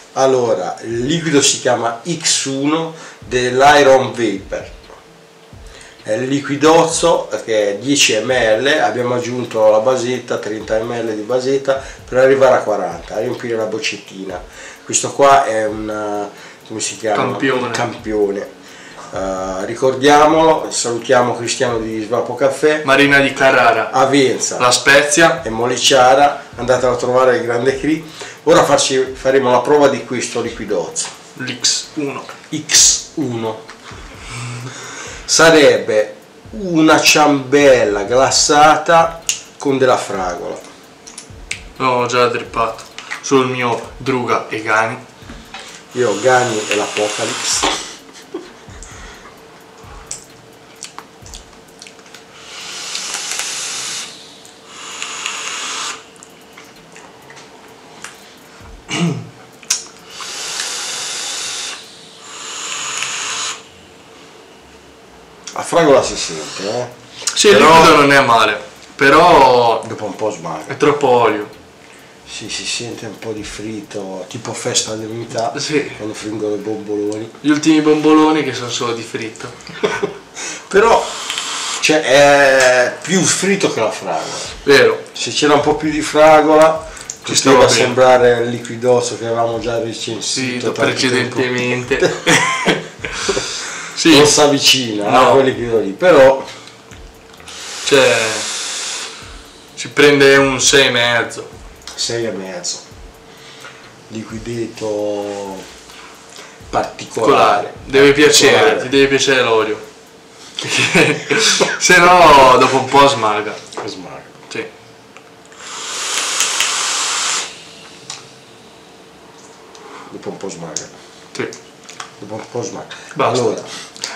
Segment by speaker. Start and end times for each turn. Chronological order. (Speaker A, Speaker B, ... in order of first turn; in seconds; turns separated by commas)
Speaker A: 0.1-4.8, Speaker A: 6.0-18.5, Speaker B: 17.1-17.8, Speaker A: 19.1-22.9, Speaker B: 22.8-23.9, Speaker A: 23.9-24.7, Speaker B: 24.6-25.4, Speaker A: 25.4-31.1, Speaker B: 31.4-32.3, Speaker A: 32.5-33.6, Speaker A: 35.2-40.6, Speaker B: 41.8-45.0, Speaker A: 45.9-47.9, Speaker A: 65.5-66.9, Speaker B: 67.3-69.8, Speaker A: 67.4-68.0, Speaker A: 69.8-70.8, Speaker B: 70.7-71.5, Speaker A: 72.3-77.3, Speaker B: 75.5-76.0, Speaker B: 77.4-80.0, Speaker A: 80.4-81.2, Speaker A: 81.8-84.5, Speaker B: 84.6-85.0, Speaker A: 85.1-92.0, Speaker B: 87.3-87.9, Speaker B: 90.3-94.3, Speaker A: 94.0-96.5, Speaker B: 95.0-95.5, Speaker B: 97.8-98.5, Speaker B: 99.8-101.5, Speaker A: 102.0-102.8, Speaker A: 104.1-105.6, Speaker A: 106.7-108.9, Speaker B: 107.2-109.8, Speaker B: 110.6-113.6, Speaker A: 113.8-114.3, Speaker A: 120.1-120.9, Speaker A: 122.2-123.9, Speaker B: 123.1-123.6